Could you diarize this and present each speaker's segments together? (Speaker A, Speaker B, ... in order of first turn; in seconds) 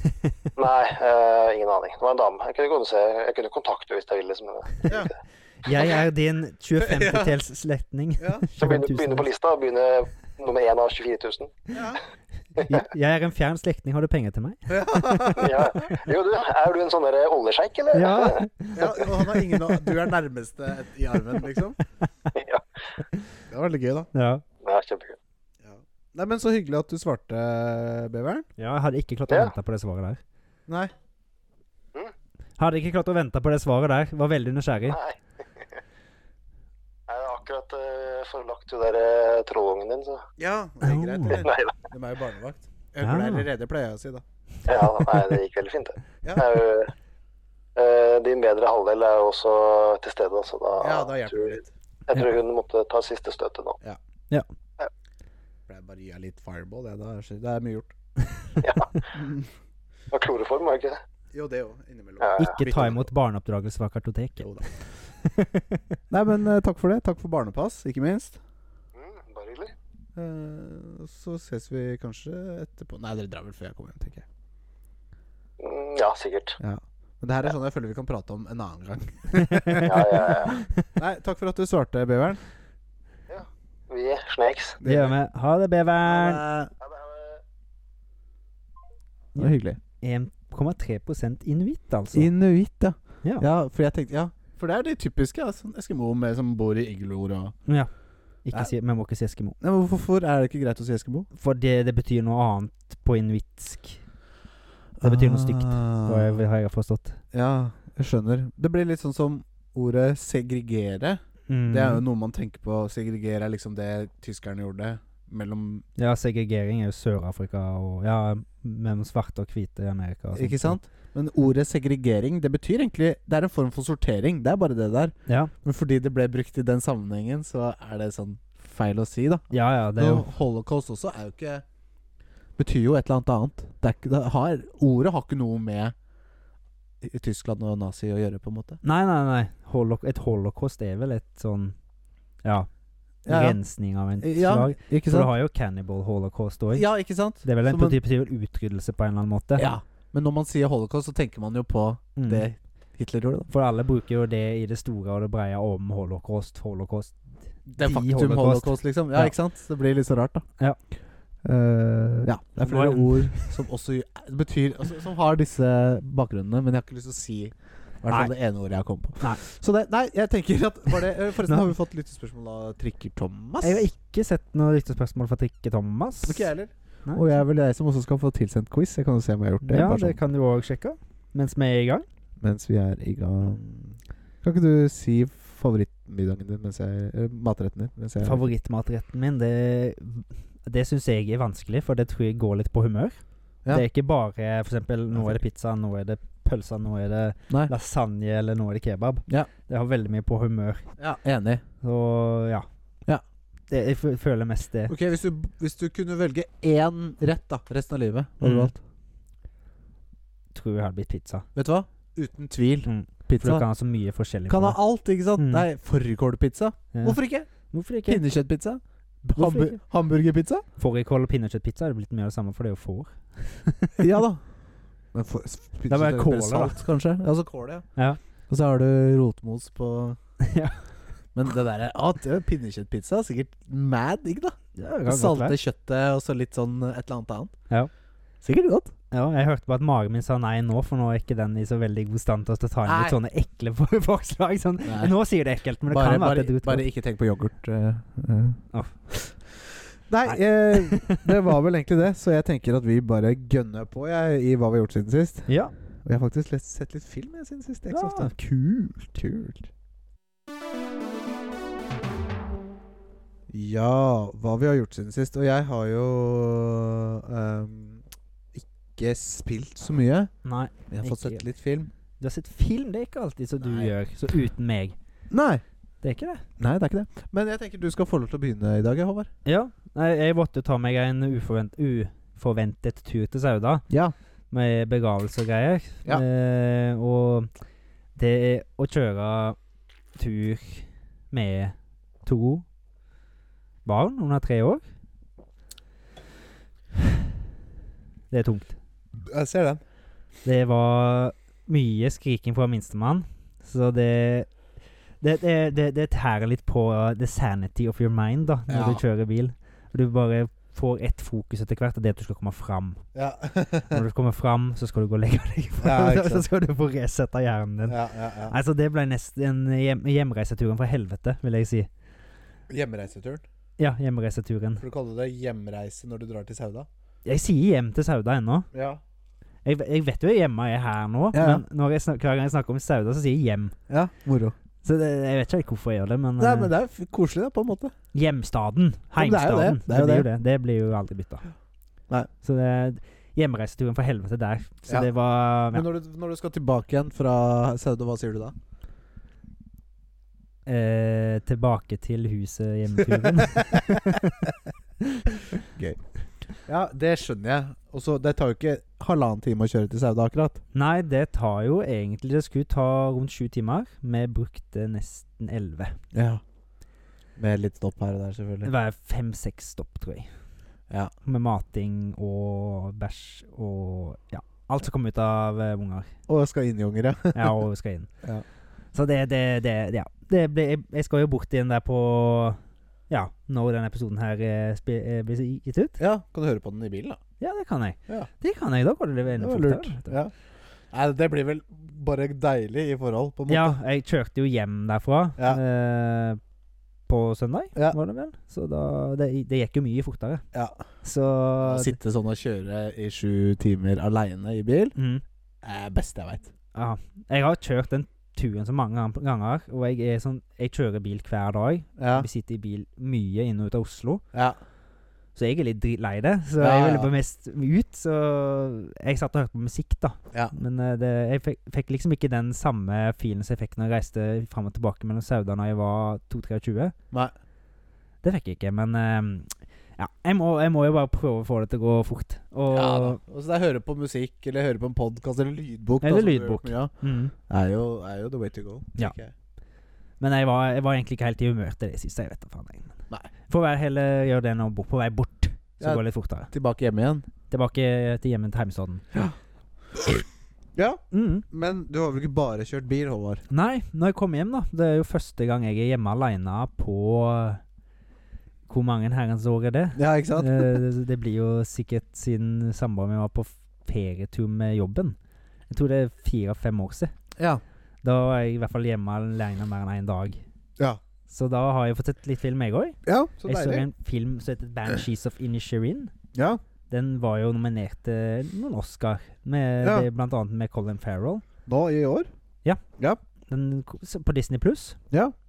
Speaker A: 0.6-5.1, 8.6-11.7, 15.4-18.4, 22.4-22.6, 24.6-25.2, 34.9-35.8, 37.1-40.3, 41.4-41.7, 44.7-46.9, 47.8-53.8, 58.6-59.0, 60.1-61.0, 62.2-62.9, 69.0-69.7, 75.6-76.6, 79.8-80.6, 83.3-84.8, 86.8-87.4
Speaker B: 5.6-9.3, 12.6-16.1, 17.9-19.9, 24.1-24.4, 28.6-30.2, 32.6-35.0, 40.8-41.5, 43.0-43.5, 62.4-66.0, 79.4-80.8, 84.8-86.4, 89.3-92.3, 98.4-99.6, 101.3-104.0, 105.0-107.2, 111.5-112.0, 116.0-120.8, 125.3-125.5, 129.5-130.3, 138.8-141.8, 143.3-146.9, 147.4-149.7, 152.2-152.4, 153.5-157.2, 157.7-159.3, 162.6-163.6, 173.6-176.5, 179.6-182.1, 188.2-193.2, 193.7-200.9, 201.8-202.7, 203.7-204.9, 208.4-208.7, 210.5-211.5, 212.8-214.8, 215.4-215.7, 216.9-218.2, 219.4-219.8, 220.8-224.0, 225.9-226.8, 230.4-230.9, 234.8-235.6, 239.1-246.8, 248.7-249.0, 250.2-251.4, 255.5-255.7, 257.9-258.3, 270.4-271.4, 272.2-275.0, 276.0-276.4, 279.4-283.9, 284.5-287.5, 288.2-289.6, 290.2-292.6, 293.9-294.8, 298.3-298.8, 300.4-304.5, 305.2-313.0, 313.9-321.9, 323.8-324.8, 327.2-328.7, 329.6-333.8, 334.8-336.7, 338.1-341.5, 342.4-345.9, 350.7-354.5, 360.7-366.0, 368.6-370.3, 371.2-376.1, 377.4-378.1, 378.9-386.0, 387.4-390.1, 393.5-396.4, 397.1-400.4, 401.0-402.0, 404.9-405.2, 406.8-414.2, 415.4-426.9, 428.2-433.2, 436.0-437.3, 440.2-443.0, 443.5-446.5, 447.5-449.0, 451.1-451.4, 453.5-457.6, 458.7-465.2, 465.7-467.1, 468.0-470.4, 471.3-476.1, 476.9-481.4, 483.5-485.0
Speaker C: 6.8-7.3, 8.2-8.5, 11.7-12.0, 14.7-15.9, 18.8-21.8, 23.5-24.1, 25.6-28.5, 30.7-30.9, 40.4-44.2, 46.2-46.5, 50.8-51.7, 55.7-57.9, 59.1-59.5, 61.3-63.1, 64.4-64.7, 66.1-68.4, 70.2-74.2, 76.6-82.4, 84.8-85.2, 86.0-86.7, 89.4-89.8, 92.1-97.6, 99.6-101.3, 105.0-106.4, 107.3-115.8, 120.3-131.6, 132.6-135.9, 137.0-138.8, 143.3-143.6, 144.2-145.3, 146.7-148.0, 149.6-153.5, 157.7-160.5, 161.4-173.9, 176.3-180.2, 182.4-188.5, 195.1-195.4, 201.0-201.6, 204.9-208.8, 211.6-213.7, 214.5-217.5, 218.1-220.6, 224.0-224.4, 225.1-227.9, 228.5-230.2, 231.3-237.6, 238.4-238.9, 242.8-243.2, 244.9-245.1, 245.9-249.3, 250.1-255.5, 256.1-259.7, 263.5-268.0, 268.6-270.3, 270.9-271.9, 273.6-273.9, 275.3-275.6, 276.6-279.3, 283.9-284.1, 299.2-299.8, 308.7-309.0, 313.1-314.0, 315.8-316.5, 317.9-318.6, 322.7-323.4, 324.8-326.9, 328.7-329.0, 331.3-331.6, 333.9-334.6, 336.4-337.9, 339.2-340.3, 345.7-348.6, 353.2-354.2, 355.7-356.0, 356.6-360.6, 366.1-366.4, 367.4-368.7, 376.3-377.6, 386.0-387.2, 389.4-390.3, 390.9-393.8, 400.5-400.8, 401.6-404.9, 405.6-406.5, 412.0-412.3, 416.6-417.1, 432.7-436.9, 437.5-439.3, 445.8-447.3, 449.9-453.4, 460.0-460.8, 467.4-467.6, 473.1-473.9, 476.3-476.6, 479.8-480.1, 481.7-482.3